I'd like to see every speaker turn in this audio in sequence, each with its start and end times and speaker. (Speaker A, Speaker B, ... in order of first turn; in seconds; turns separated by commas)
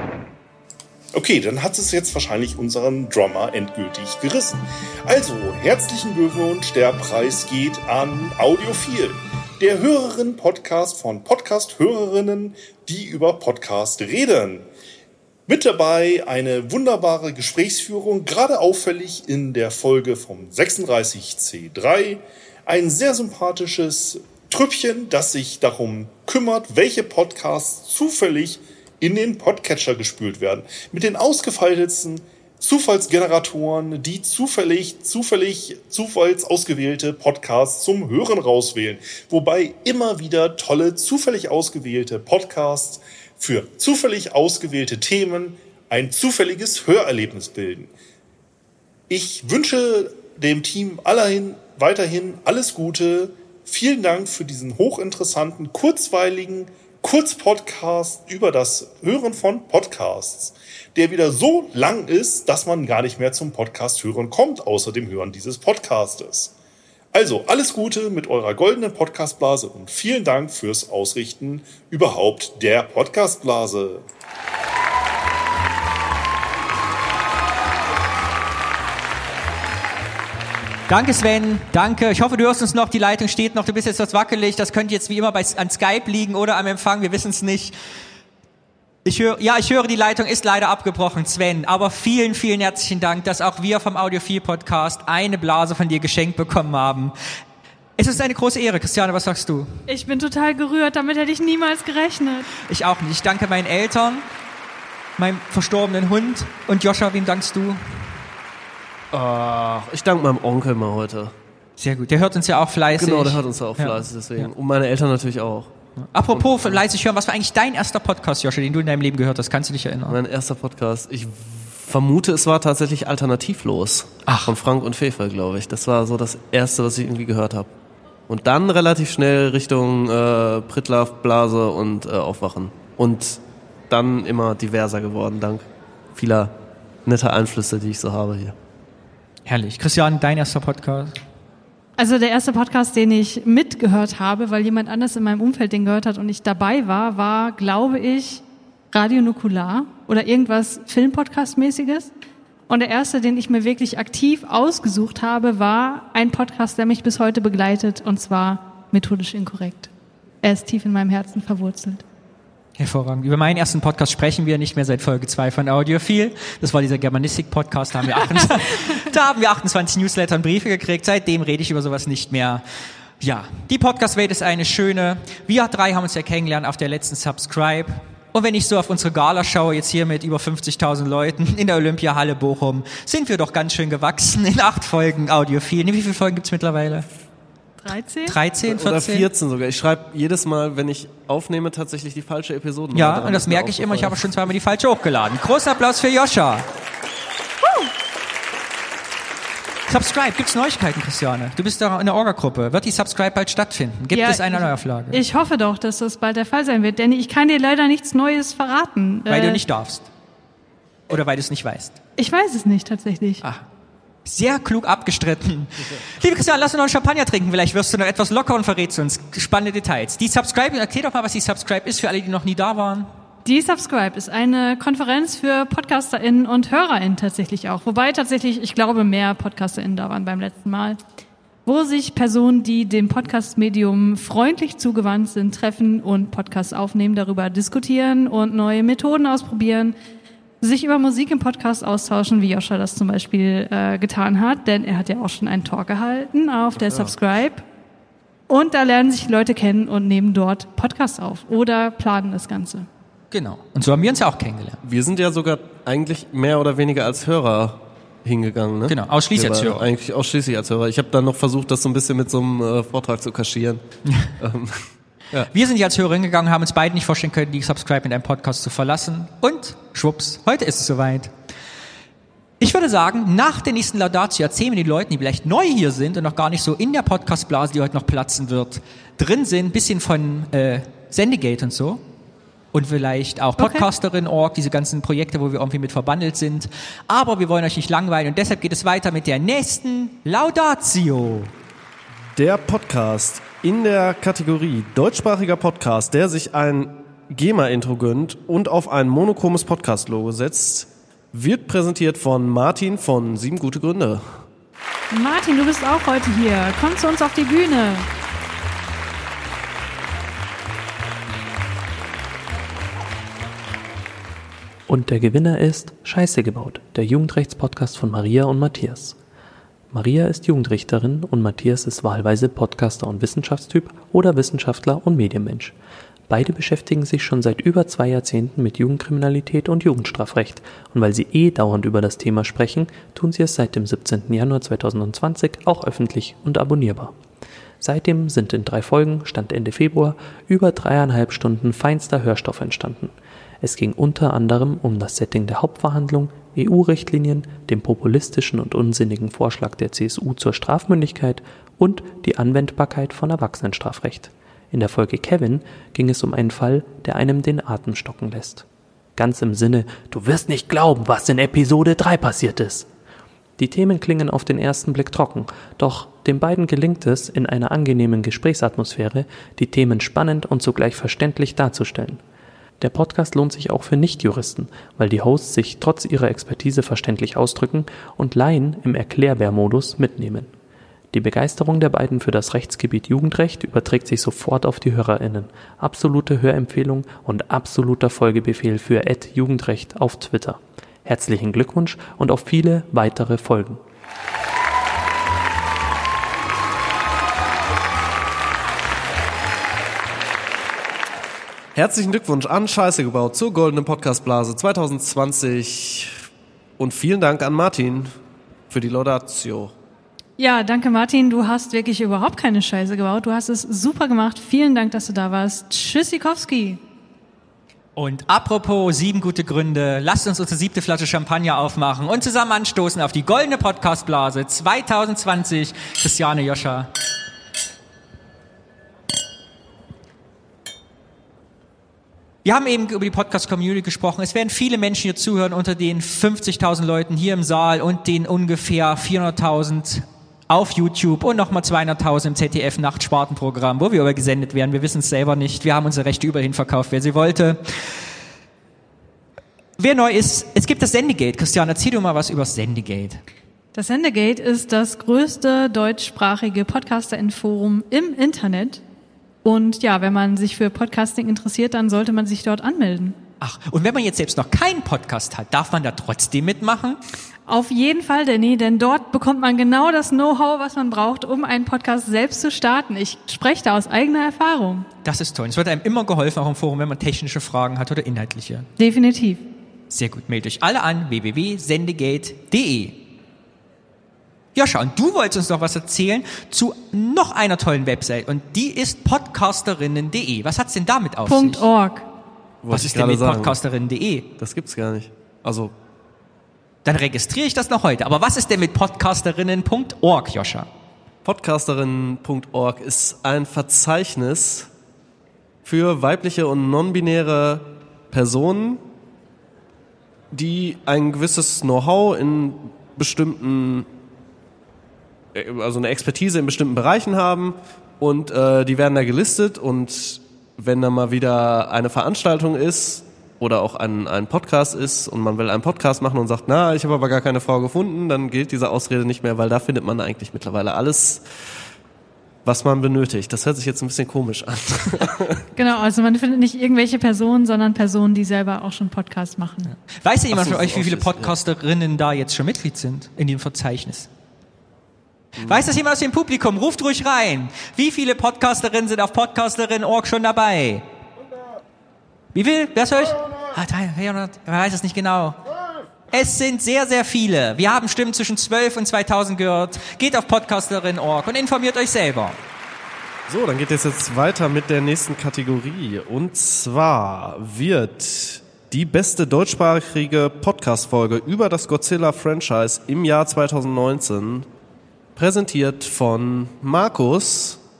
Speaker A: 1.1-14.7, Speaker A: 15.5-47.9, Speaker A: 49.1-66.5, Speaker A: 67.1-74.0, Speaker B: 80.9-87.7, Speaker B: 89.0-97.1, Speaker B: 98.0-99.8, Speaker C: 99.9-102.5, Speaker B: 102.7-104.2, Speaker B: 105.2-108.1, Speaker D: 109.1-111.3, Speaker B: 111.8-114.5, Speaker D: 113.0-115.7, Speaker B: 116.0-120.2, Speaker D: 116.3-116.8, Speaker D: 120.1-127.7, Speaker B: 124.2-124.5, Speaker D: 128.3-136.5, Speaker D: 137.1-138.6, Speaker B: 139.4-141.2, Speaker C: 142.0-152.1, Speaker C: 152.7-159.9, Speaker C: 160.4-162.0, Speaker B: 162.8-172.6, Speaker B: 173.2-187.1, Speaker C: 187.8-188.4, Speaker B: 188.2-189.3, Speaker D: 188.6-194.5, Speaker B: 192.9-196.7, Speaker B: 199.9-205.2, Speaker C: 204.1-209.6, Speaker B: 209.2-210.1, Speaker B: 211.1-211.9, Speaker C: 212.2-213.4, Speaker B: 214.2-223.1, Speaker C: 223.4-231.0, Speaker C: 231.7-239.9, Speaker C: 240.6-247.6, Speaker D: 246.8-247.1, Speaker C: 248.5-252.9, Speaker B: 253.3-254.8, Speaker D: 254.8-263.8, Speaker B: 258.9-259.9, Speaker B: 264.1-264.3, Speaker D: 264.4-265.5, Speaker B: 265.5-271.3, Speaker B: 272.6-282.0, Speaker B: 282.7-291.5, Speaker C: 283.6-283.9, Speaker D: 292.3-304.4, Speaker C: 305.1-308.1, Speaker E: 314.9-319.2, Speaker E: 319.9-325.8, Speaker E: 326.3-337.1, Speaker E: 337.8-358.6, Speaker E: 359.2-362.9, Speaker E: 363.6-372.2, Speaker E: 372.8-380.5, Speaker E: 381.1-393.8, Speaker D: 401.7-406.2, Speaker D: 406.8-408.1, Speaker D: 408.7-409.7, Speaker C: 410.4-416.8, Speaker B: 417.9-426.9, Speaker B: 432.4-448.0, Speaker B: 449.8-453.2, Speaker C: 453.7-458.8, Speaker C: 459.4-463.2, Speaker B: 463.4-467.0, Speaker C: 467.4-474.9, Speaker B: 475.0-478.7, Speaker C: 478.8-479.4, Speaker B: 479.9-483.0, Speaker B: 484.5-491.6, Speaker C: 491.3-492.1, Speaker D: 492.6-493.6, Speaker B: 492.7-494.3, Speaker D: 494.4-495.7, Speaker B: 496.8-500.7, Speaker D: 501.2-504.7, Speaker D: 505.6-508.8, Speaker D: 510.3-513.9, Speaker D: 515.3-531.2, Speaker D: 532.4-535.4, Speaker C: 535.5-539.7, Speaker B: 539.9-544.1, Speaker D: 540.3-541.3, Speaker B: 545.4-550.8, Speaker B: 552.3-555.4, Speaker B: 556.1-562.4, Speaker D: 563.3-574.5, Speaker D: 575.1-577.6